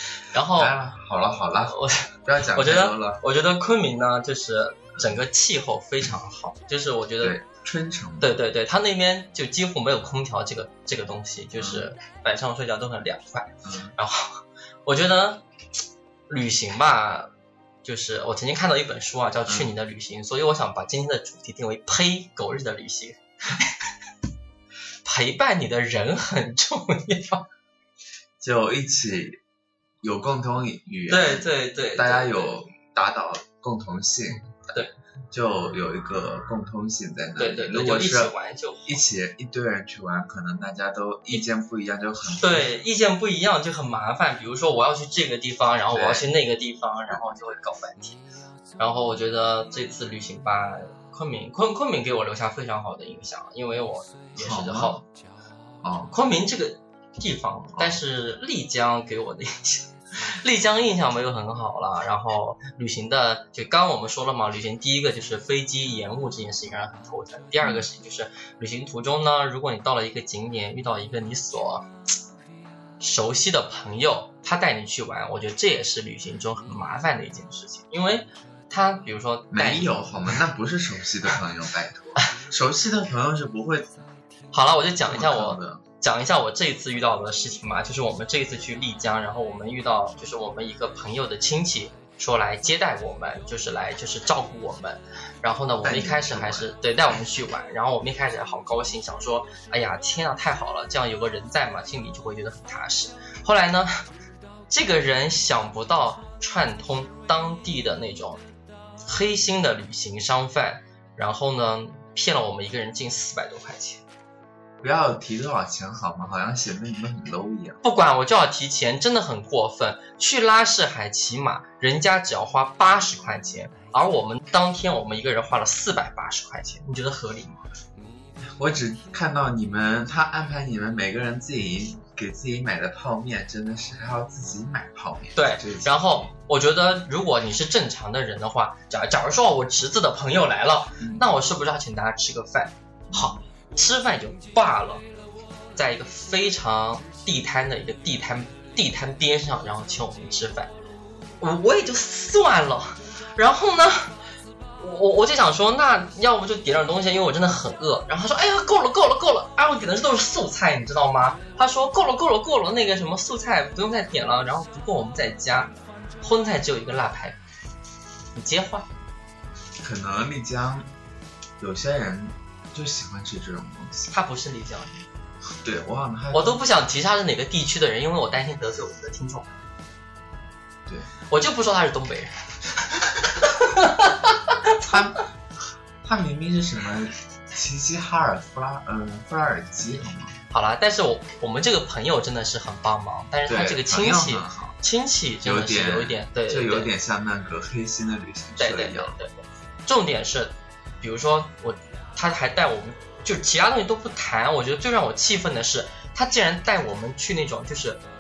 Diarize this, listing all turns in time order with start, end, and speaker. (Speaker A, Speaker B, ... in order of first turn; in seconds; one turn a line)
Speaker A: 0.2-0.7
Speaker B: 0.6-3.2
Speaker A: 1.6-7.4
Speaker B: 7.2-8.3
Speaker A: 8.2-15.4
Speaker B: 11.6-11.9
Speaker B: 13.6-13.9
Speaker A: 16.3-17.3
Speaker A: 17.8-23.7
Speaker A: 25.0-27.4
Speaker B: 28.4-29.4
Speaker B: 30.0-38.3
Speaker A: 31.1-32.6
Speaker A: 34.3-34.9
Speaker A: 37.4-39.0
Speaker B: 38.9-42.7
Speaker A: 42.4-48.2
Speaker B: 45.9-46.3
Speaker A: 48.8-55.0
Speaker B: 54.4-55.0
Speaker B: 55.8-56.1
Speaker A: 56.1-71.9
Speaker A: 73.0-79.9
Speaker B: 79.5-84.0
Speaker A: 84.5-104.0
Speaker B: 85.0-85.8
Speaker B: 95.8-96.7
Speaker A: 104.7-108.4
Speaker A: 109.0-114.0
Speaker B: 114.8-117.8
Speaker A: 117.8-127.7
Speaker B: 128.4-136.3
Speaker A: 135.4-145.0
Speaker B: 141.0-141.3
Speaker B: 143.1-143.4
Speaker A: 145.8-150.7
Speaker A: 151.4-154.2
Speaker A: 154.8-167.4
Speaker A: 168.3-168.9
Speaker B: 169.8-170.9
Speaker B: 171.6-174.1
Speaker A: 174.1-175.1
Speaker B: 175.6-176.6
Speaker A: 176.3-179.5
Speaker A: 181.3-182.3
Speaker A: 183.4-184.9
Speaker B: 184.8-185.2
Speaker B: 186.0-190.4
Speaker A: 190.5-196.9
Speaker B: 193.5-194.8
Speaker B: 195.4-199.2
Speaker A: 198.6-208.0